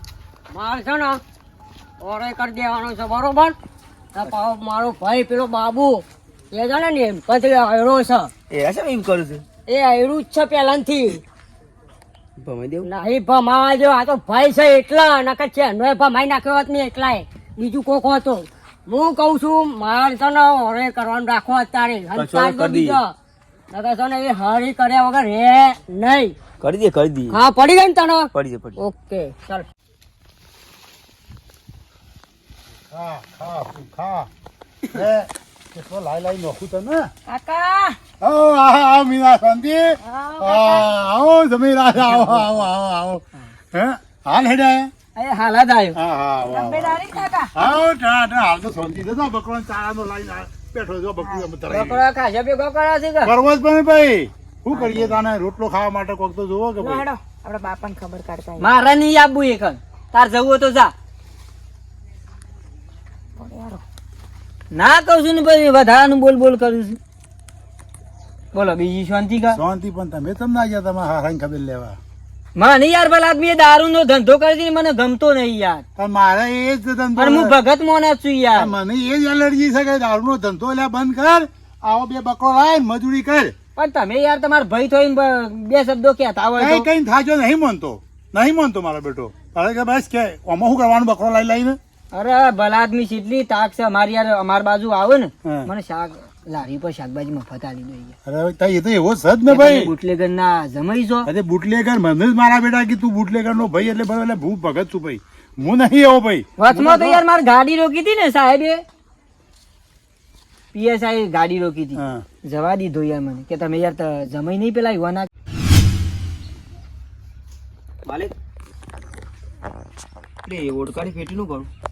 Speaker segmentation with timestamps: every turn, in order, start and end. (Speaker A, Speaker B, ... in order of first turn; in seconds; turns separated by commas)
Speaker A: 0.5-1.2, Speaker A: 2.0-3.5, Speaker A: 4.2-8.3, Speaker B: 8.5-9.4, Speaker A: 9.7-11.2, Speaker B: 12.4-12.9, Speaker A: 12.8-23.1, Speaker B: 22.1-23.0, Speaker A: 23.7-26.4, Speaker B: 26.6-27.4, Speaker A: 27.3-29.7, Speaker B: 28.3-28.8, Speaker C: 32.9-34.3, Speaker C: 34.9-37.1, Speaker D: 37.3-37.9, Speaker C: 38.2-44.9, Speaker D: 40.1-40.7, Speaker E: 42.1-42.5, Speaker E: 45.2-46.0, Speaker C: 46.0-47.0, Speaker D: 46.6-47.5, Speaker C: 47.5-52.0, Speaker E: 51.6-53.3, Speaker C: 53.2-57.0, Speaker E: 54.7-55.2, Speaker D: 56.8-58.7, Speaker E: 58.6-60.9, Speaker D: 63.4-63.8, Speaker E: 64.7-67.0, Speaker E: 68.5-69.6, Speaker C: 69.5-72.0, Speaker E: 72.6-75.8, Speaker C: 76.0-77.5, Speaker E: 77.2-78.7, Speaker C: 78.6-83.5, Speaker E: 83.8-86.9, Speaker C: 86.6-91.8, Speaker E: 92.1-98.2, Speaker C: 95.4-95.7, Speaker C: 98.2-99.9, Speaker E: 99.5-101.3, Speaker C: 101.2-107.2, Speaker E: 106.6-108.8, Speaker E: 110.7-115.3, Speaker C: 112.0-112.2, Speaker B: 118.1-118.3, Speaker B: 120.5-121.7